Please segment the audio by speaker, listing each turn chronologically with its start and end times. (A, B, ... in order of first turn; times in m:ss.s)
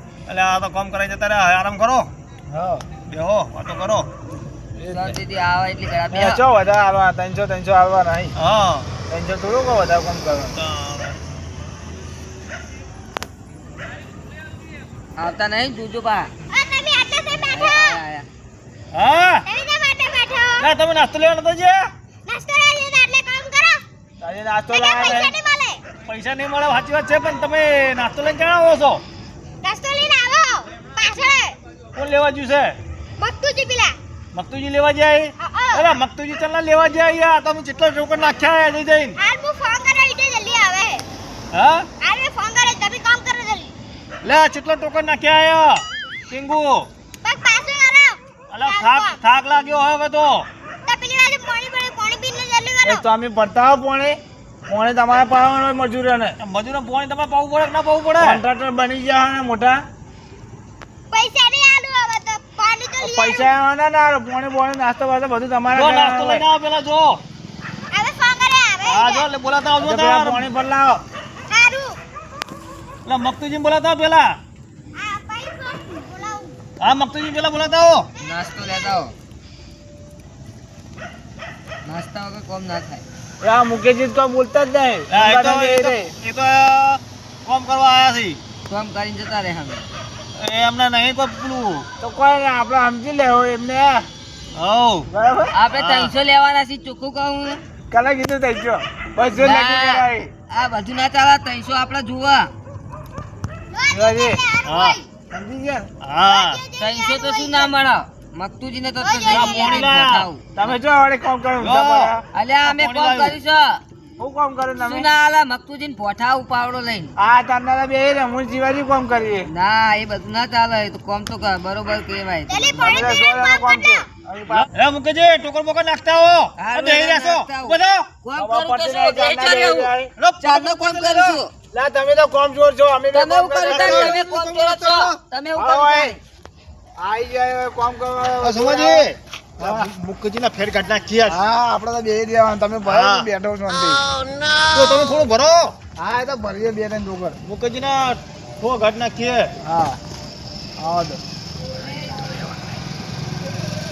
0:00.3-0:02.1 A
0:02.5-0:02.8 B
0:03.1-0:04.1 A
0:04.8-0:05.2 B
0:04.9-0:06.4 C
0:06.1-0:08.4 B
0:08.4-0:08.9 A
0:09.1-0:10.6 B
0:10.6-0:11.2 A
0:15.2-0:16.3 C
0:16.5-0:18.0 D
0:17.5-0:18.3 C
0:18.9-0:19.4 A
0:19.5-0:20.7 D
0:20.6-0:21.9 A
0:22.3-0:23.8 D
0:24.2-0:25.4 B
0:24.7-0:25.8 D
0:26.0-0:29.0 A
0:29.6-0:31.6 D
0:32.0-0:32.8 A
0:33.2-0:34.0 D
0:34.3-0:39.2 A
0:35.4-0:35.9 D
0:39.2-0:41.0 D
0:41.5-0:41.9 A
0:42.0-0:43.7 D
0:44.2-0:46.9 A
0:47.2-0:49.2 D
0:48.5-0:50.5 A
0:50.9-0:53.0 D
0:52.8-0:56.4 B
0:56.4-0:58.4 A
0:58.2-0:59.8 B
1:01.1-1:03.5 D
1:03.0-1:06.4 B
1:05.7-1:07.2 A
1:07.9-1:09.3 D
1:08.9-1:10.5 A
1:09.8-1:11.0 B
1:11.5-1:12.0 D
1:13.1-1:14.4 A
1:15.0-1:16.6 D
1:16.8-1:18.1 A
1:18.2-1:19.2 C
1:21.8-1:23.0 C
1:23.4-1:26.1 B
1:25.1-1:28.4 A
1:28.7-1:29.8 C
1:30.4-1:31.9 A
1:32.0-1:34.1 B
1:34.5-1:35.1 A
1:35.1-1:35.5 B
1:35.5-1:37.6 C
1:35.8-1:36.1 A
1:37.9-1:40.3 B
1:39.4-1:42.5 C
1:43.7-1:45.1 D
1:43.9-1:44.4 B
1:44.6-1:45.0 A
1:45.3-1:45.9 B
1:46.0-1:46.6 A
1:46.2-1:47.7 D
1:46.8-1:50.4 C
1:49.0-1:49.8 D
1:49.3-1:50.3 A
1:50.6-1:52.2 B
1:51.6-1:53.4 A
1:52.3-1:53.8 C
1:54.2-1:55.1 B
1:54.8-1:57.1 C
1:57.2-1:59.5 B
1:59.5-2:02.8 C
2:02.5-2:04.1 D
2:02.7-2:04.7 B
2:04.5-2:08.1 A
2:06.6-2:11.5 C
2:08.4-2:10.1 B
2:10.2-2:11.4 A
2:11.7-2:14.2 B
2:13.1-2:16.2 C
2:13.7-2:15.2 A
2:15.6-2:16.2 B
2:17.0-2:19.1 B
2:18.4-2:21.4 A
2:19.6-2:19.9 B
2:21.3-2:24.0 B
2:22.8-2:23.3 A
2:24.7-2:25.8 A
2:26.0-2:27.4 B
2:27.4-2:29.5 A
2:29.6-2:30.0 B
2:30.8-2:31.2 B